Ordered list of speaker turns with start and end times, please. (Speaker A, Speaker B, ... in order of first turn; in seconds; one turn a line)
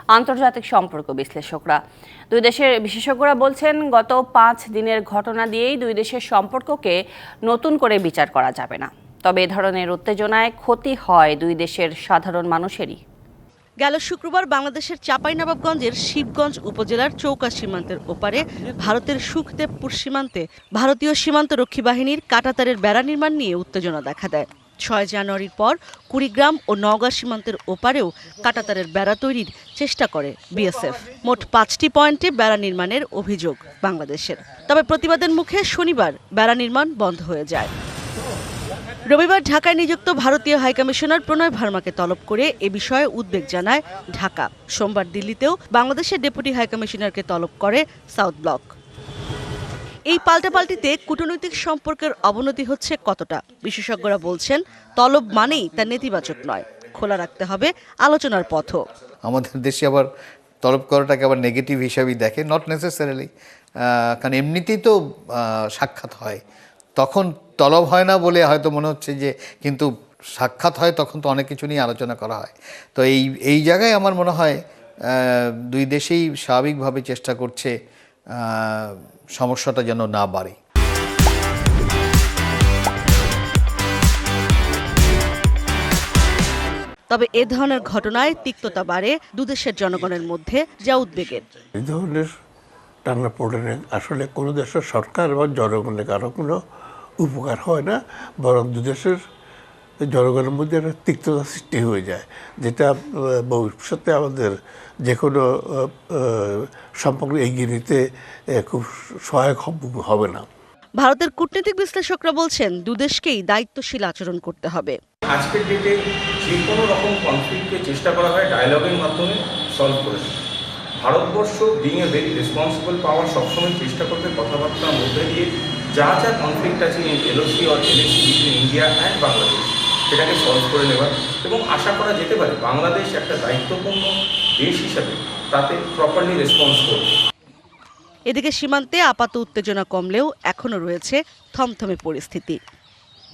Speaker A: 0.1-1.8
Speaker A: 2.3-13.0
Speaker B: 13.8-37.7
Speaker B: 39.0-48.7
Speaker B: 50.1-58.8
Speaker C: 59.2-60.1
Speaker C: 60.6-63.3
Speaker C: 63.9-66.4
Speaker C: 67.0-74.6
Speaker C: 75.1-77.7
Speaker C: 78.4-80.5
Speaker B: 87.1-91.5
Speaker D: 91.8-92.3
Speaker D: 93.0-96.6
Speaker D: 97.2-99.2
Speaker D: 100.1-108.0
Speaker D: 108.6-110.5
Speaker B: 111.0-115.0
Speaker E: 115.3-120.3
Speaker E: 121.0-134.1
Speaker E: 134.6-137.1
Speaker B: 138.3-142.6